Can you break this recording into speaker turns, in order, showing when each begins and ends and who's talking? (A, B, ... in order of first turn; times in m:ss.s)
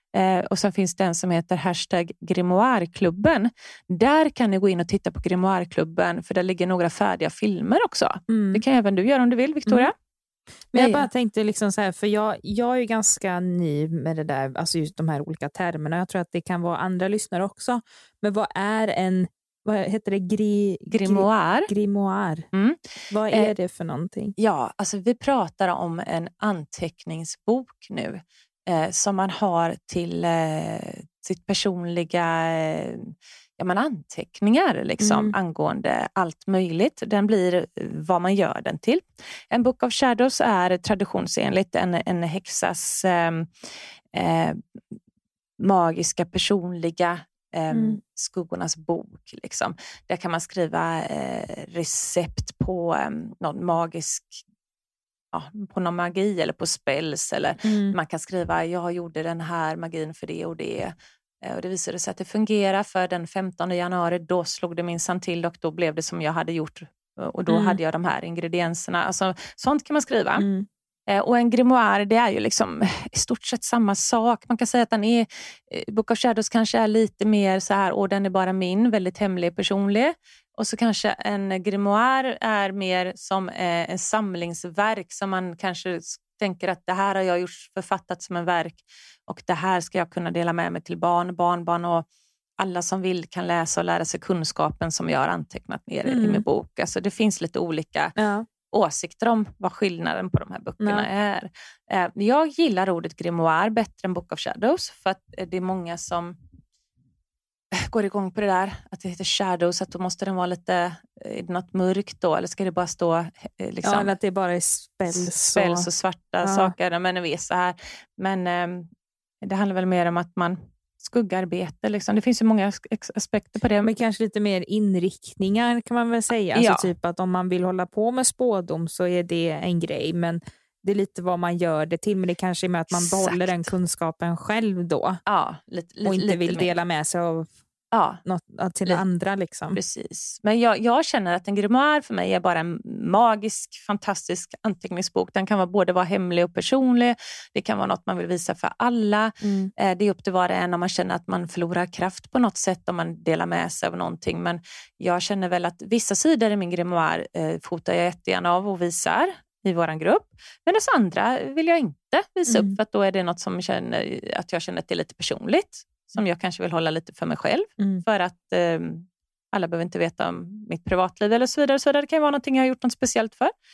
0:00.1-0:09.9 A
0:08.3-0:08.6 B
0:10.7-0:22.5 B
0:10.7-0:11.1 A
0:20.9-0:21.7 A
0:22.5-0:23.5 A
0:23.1-0:24.3 B
0:24.4-0:44.6 A
0:35.0-0:35.4 B
0:45.6-0:54.4 A
0:47.7-0:48.0 B
0:55.3-1:10.5 A
0:57.6-0:58.0 B
1:07.5-1:07.8 B
1:10.4-1:10.7 B
1:11.1-1:32.1 A
1:32.6-1:38.2 A
1:36.1-1:36.4 B
1:38.2-1:38.5 B
1:38.7-1:46.4 A
1:40.8-1:41.1 B
1:47.7-1:54.1 A
1:53.8-1:55.9 B
1:55.1-1:58.9 A
1:56.4-1:56.7 B
1:59.4-2:03.9 A
2:03.8-2:15.2 B
2:06.6-2:06.9 A
2:12.9-2:13.7 A
2:15.3-2:16.8 A
2:16.0-2:17.5 B
2:17.9-2:18.2 A
2:18.2-2:19.8 B
2:19.7-2:53.5 A
2:29.4-2:29.7 B
2:42.5-2:42.8 B